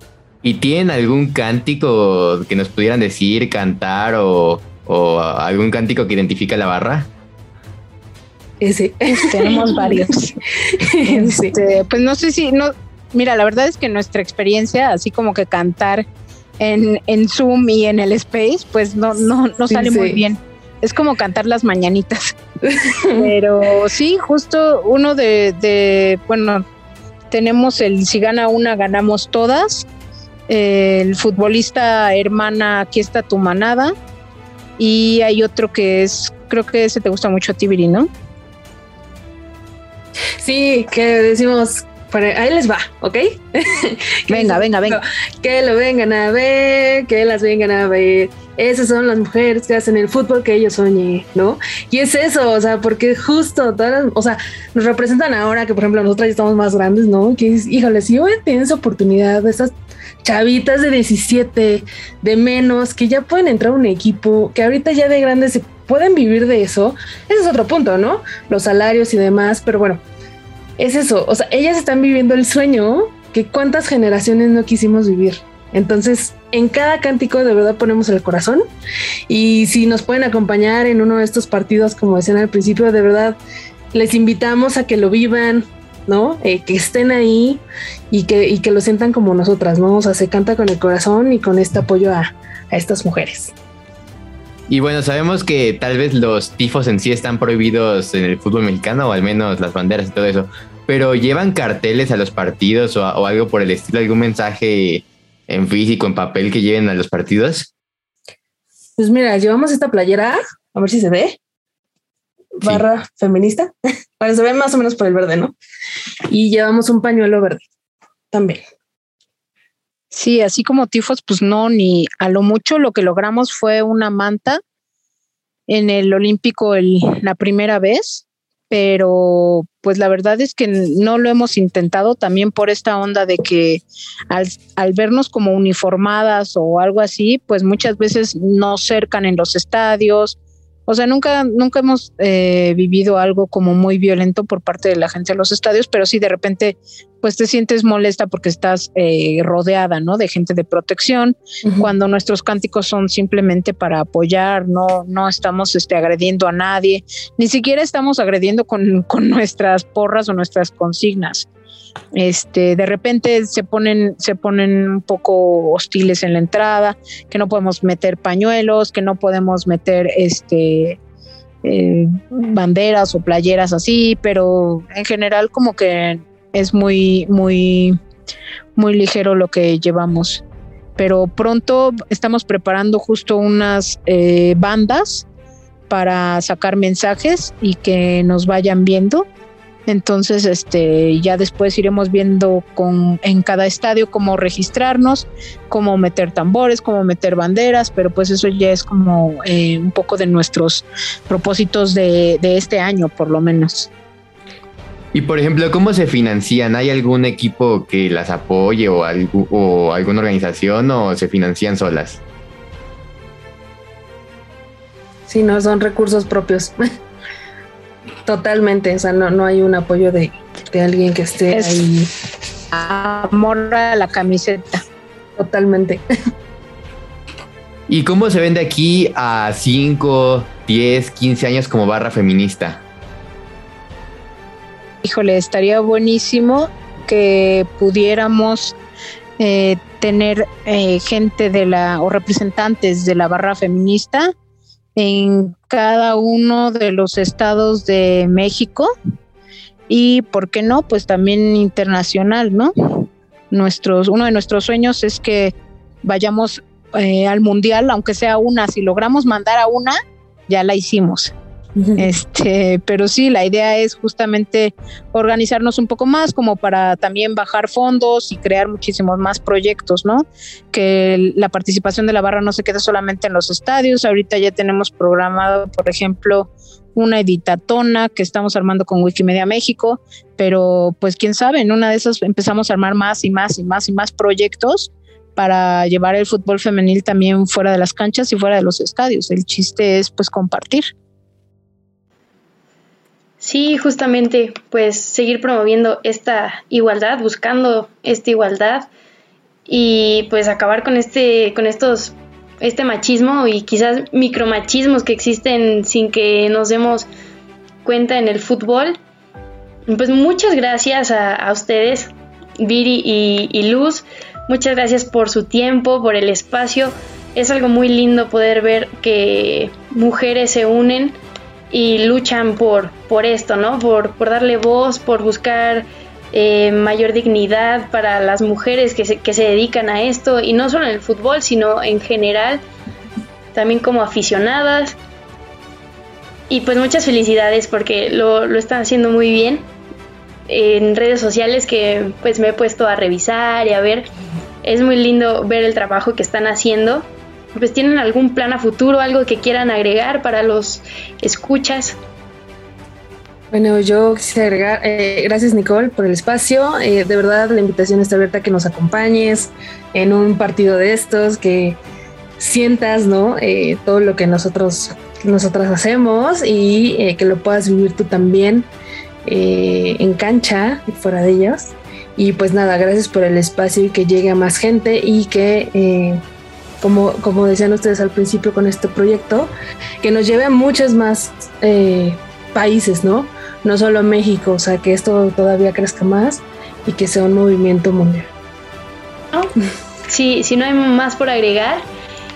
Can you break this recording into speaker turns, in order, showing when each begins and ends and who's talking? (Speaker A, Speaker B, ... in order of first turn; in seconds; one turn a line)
Speaker A: 0.4-7.1
Speaker B: 8.6-10.1
Speaker C: 9.1-10.4
Speaker B: 10.6-11.6
Speaker C: 11.1-16.1
Speaker C: 16.6-22.4
Speaker B: 19.7-20.2
Speaker B: 22.6-23.3
Speaker C: 23.1-26.6
Speaker C: 27.3-29.9
Speaker C: 30.5-33.9
Speaker C: 34.8-38.1
Speaker B: 40.4-70.0
Speaker C: 44.3-45.0
Speaker B: 70.8-78.6
Speaker B: 79.3-83.4
Speaker B: 83.9-93.5
Speaker A: 94.7-107.7
Speaker B: 109.0-111.4
Speaker B: 112.6-115.6
Speaker B: 116.3-117.6
Speaker B: 118.3-118.6
Speaker C: 120.1-124.6
Speaker C: 125.7-161.5
Speaker B: 151.6-151.9
Speaker C: 162.2-171.0
Speaker C: 171.6-178.0
Speaker C: 178.8-180.4
Speaker C: 181.0-185.2
Speaker C: 185.9-189.2
Speaker C: 189.9-203.9
Speaker A: 205.1-212.2
Speaker B: 215.3-216.8
Speaker B: 218.2-222.1
Speaker C: 221.5-221.8
Speaker C: 222.7-224.8
Speaker B: 225.4-226.0
Speaker A: 227.9-232.8
Speaker C: 235.0-238.8
Speaker C: 239.4-244.3
Speaker C: 244.9-248.9
Speaker C: 249.9-259.9
Speaker C: 260.5-261.3
Speaker B: 261.8-262.1
Speaker C: 262.0-290.9
Speaker D: 293.4-298.9
Speaker D: 299.6-307.1
Speaker D: 307.8-309.0
Speaker D: 309.9-321.2
Speaker D: 321.7-332.6
Speaker D: 333.5-335.0
Speaker D: 336.5-339.6
Speaker D: 340.5-344.1
Speaker D: 344.6-352.0
Speaker B: 353.5-361.8
Speaker B: 362.4-368.7
Speaker B: 369.2-376.2
Speaker B: 376.8-388.3
Speaker D: 390.1-391.8